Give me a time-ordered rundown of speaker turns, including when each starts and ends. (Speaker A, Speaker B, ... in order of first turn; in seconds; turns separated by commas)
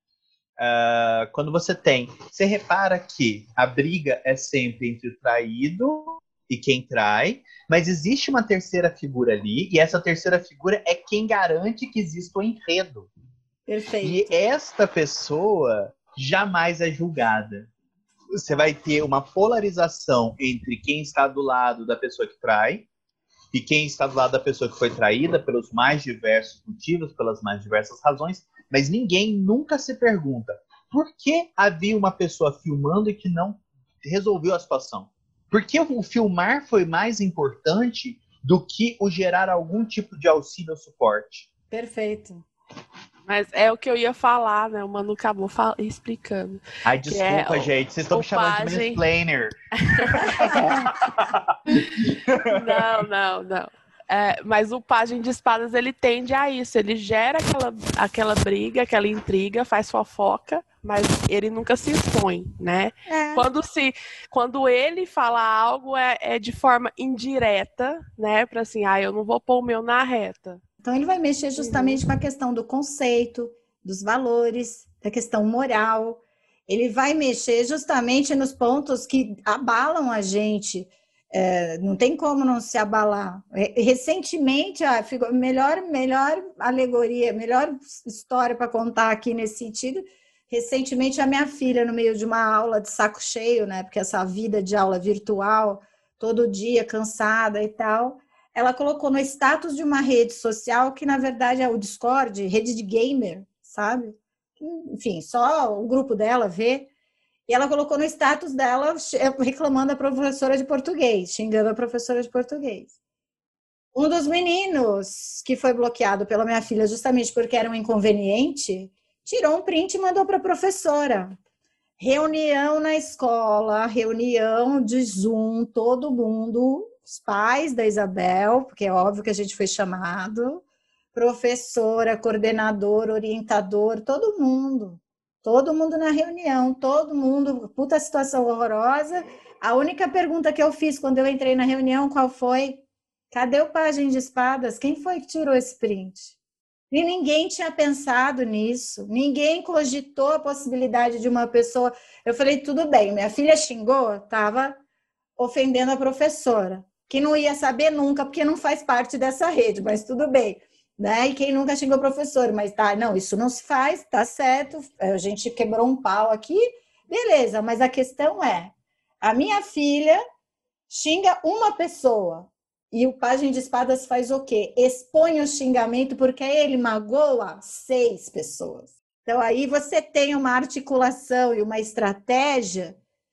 Speaker A: 0.6-13.1, Speaker B: 13.7-14.3, Speaker A: 14.0-17.7, Speaker A: 18.4-22.9, Speaker A: 23.5-41.5, Speaker B: 41.7-42.4, Speaker C: 43.3-49.0, Speaker A: 46.9-49.5, Speaker C: 49.8-50.7, Speaker A: 50.1-52.8, Speaker B: 50.4-50.7, Speaker C: 52.4-70.6, Speaker B: 63.1-63.5, Speaker B: 70.8-106.9, Speaker C: 71.6-72.0, Speaker B: 107.5-112.9, Speaker B: 114.0-121.4, Speaker B: 122.0-146.3, Speaker B: 146.9-154.8, Speaker B: 155.4-170.2, Speaker B: 170.9-183.0